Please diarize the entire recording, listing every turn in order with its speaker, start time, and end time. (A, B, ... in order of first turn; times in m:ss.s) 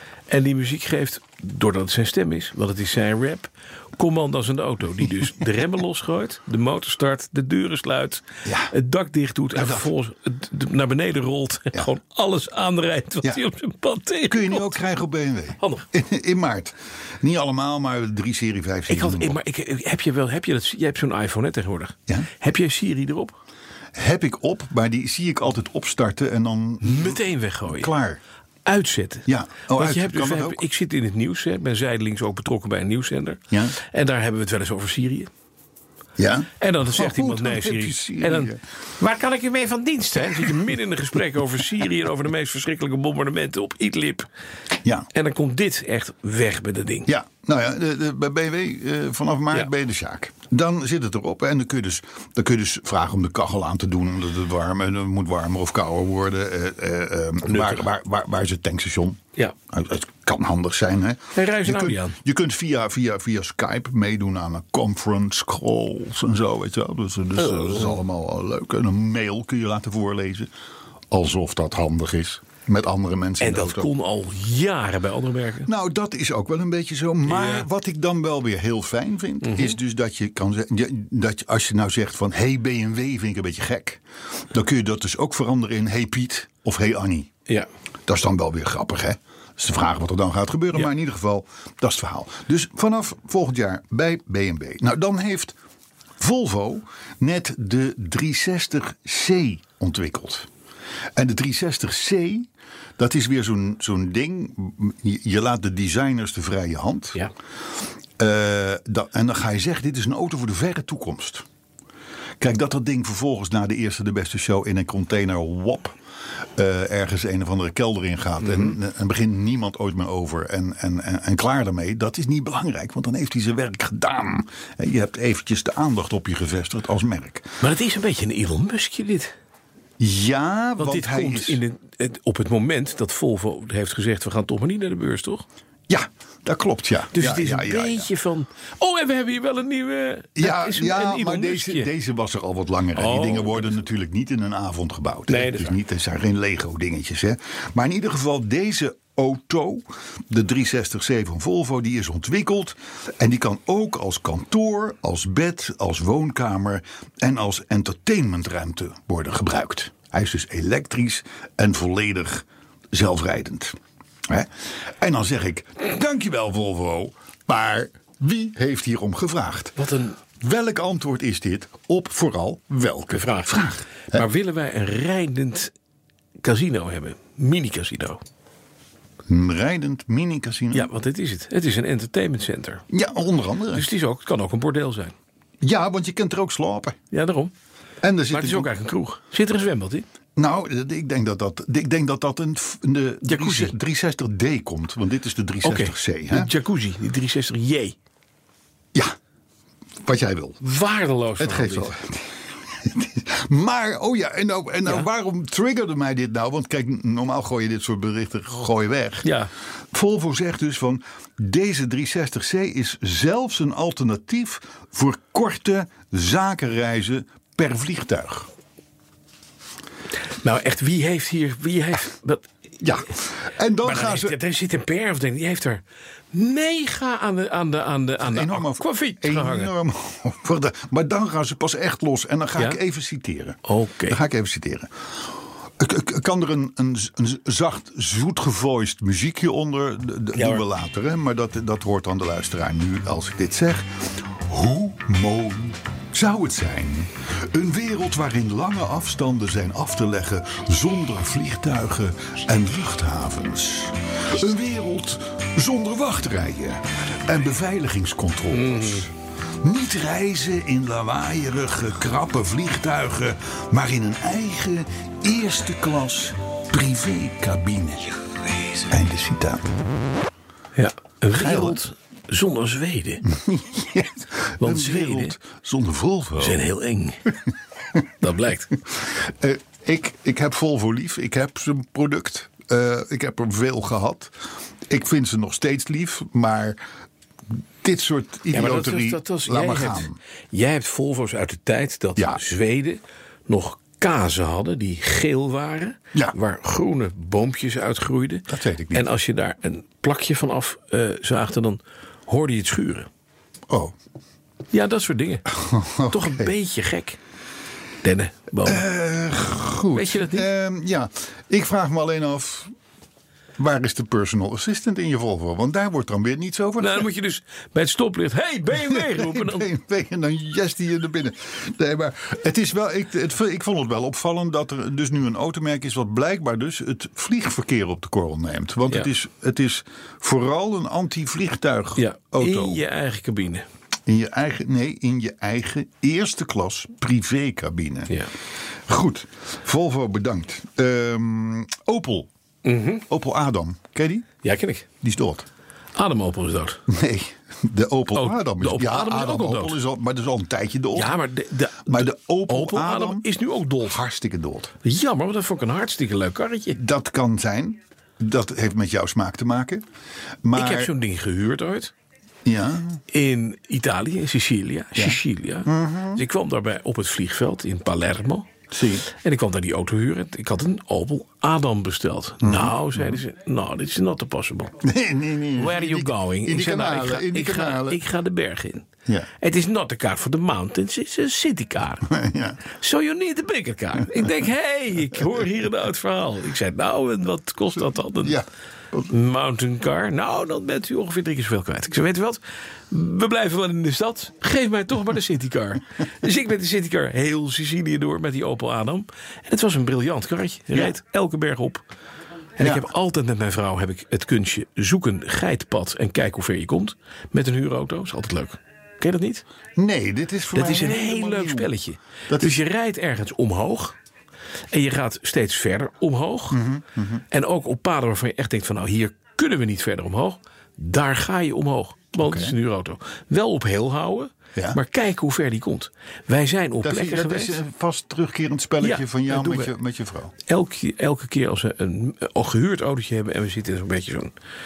0:00.3-0:14.8 A
0:08.4-0:08.7 B
0:09.6-0:09.9 B
0:14.3-0:19.4 B
0:18.9-0:23.4 A
0:24.0-0:28.2 B
0:26.8-0:27.9 A
0:28.7-0:35.3 A
0:29.3-0:30.6 B
0:33.5-0:33.8 B
0:36.2-0:38.6 B
0:36.6-0:44.3 A
0:45.1-0:47.1 A
0:47.1-1:10.5 B
0:57.5-0:57.8 A
1:01.4-1:02.2 A
1:07.4-1:08.0 A
1:11.1-1:13.9 B
1:13.4-1:15.7 A
1:15.7-1:24.0 B
1:17.3-1:17.7 A
1:19.4-1:19.8 A
1:24.5-1:27.3 B
1:28.1-1:35.6 B
1:36.2-1:40.5 B
1:41.2-1:47.2 B
1:48.2-1:51.5 B
1:52.4-1:56.0 B
1:56.6-2:07.6 B
1:58.4-1:58.8 A
2:07.6-2:09.3 A
2:10.0-2:11.6 B
2:10.8-2:15.5 A
2:15.9-2:18.1 B
2:17.1-2:21.9 A
2:20.4-2:43.8 B
2:23.0-2:23.8 A
2:25.3-2:25.8 A
2:44.3-2:49.8 B
2:49.8-2:50.2 A
2:50.4-2:54.2 B
2:53.1-2:53.6 A
2:54.1-2:55.7 A
2:56.4-2:58.2 A
2:59.3-3:00.9 B
3:00.7-3:02.8 A
3:02.9-3:03.9 B
3:03.7-3:05.2 A
3:05.6-3:07.0 B
3:07.1-3:07.5 A
3:08.0-3:08.7 B
3:08.3-3:10.1 A
3:10.4-3:16.5 B
3:13.2-3:13.7 A
3:15.6-3:18.0 A
3:20.0-3:20.6 B
3:20.6-3:21.9 A
3:21.4-3:29.3 B
3:29.2-3:29.5 A
3:29.9-3:38.5 B
3:40.4-3:42.5 A
3:42.8-3:44.4 B
3:43.8-3:49.7 A
3:48.2-3:54.9 B
3:53.7-3:54.2 A
3:55.8-4:28.3 B
4:00.3-4:00.6 A
4:18.5-4:19.1 A
4:28.9-4:29.7 B
4:30.8-4:33.2 A
4:31.4-4:31.8 B
4:33.2-4:36.6 B
4:34.6-4:35.3 A
4:36.4-4:37.2 A
4:38.2-4:38.7 A
4:39.0-4:44.3 B
4:44.9-4:46.8 B
4:47.8-4:50.2 B
4:48.5-5:03.1 A
4:52.2-4:52.4 B
4:58.5-4:59.1 B
5:04.7-5:05.4 A
5:05.5-5:06.5 B
5:06.1-5:07.2 A
5:08.0-5:08.8 A
5:08.6-5:12.7 B
5:09.9-5:10.5 A
5:13.6-5:17.1 B
5:16.8-5:19.7 A
5:18.7-5:32.8 B
5:32.0-5:33.6 A
5:34.1-5:38.2 B
5:38.9-5:42.3 B
5:42.6-5:43.0 A
5:43.1-5:44.3 B
5:44.4-5:44.9 A
5:45.0-5:45.5 B
5:46.0-5:46.8 A
5:46.9-5:51.2 B
5:48.2-5:49.8 A
5:51.0-5:54.0 A
5:51.9-5:53.3 B
5:53.8-5:54.8 B
5:54.8-5:56.8 A
5:56.7-5:59.8 B
6:00.4-6:00.9 B
6:00.6-6:01.9 A
6:02.5-6:03.0 B
6:03.1-6:08.6 A
6:05.0-6:06.2 B
6:08.7-6:09.1 B
6:09.1-6:14.8 A
6:12.4-6:13.2 B
6:14.8-6:18.0 B
6:15.6-6:18.9 A
6:19.4-6:22.1 A
6:22.1-6:22.7 B
6:22.8-6:28.4 A
6:28.2-6:29.1 B
6:29.1-6:41.8 A
6:42.6-6:49.4 A
6:42.6-6:42.9 B
6:49.8-6:51.7 B
6:50.5-6:54.0 A
6:52.3-6:52.6 B
6:54.7-6:56.6 A
6:56.5-6:57.2 B
6:57.3-7:07.6 A
7:02.2-7:02.6 B
7:06.8-7:10.3 B
7:08.8-7:09.7 A
7:10.5-7:14.3 A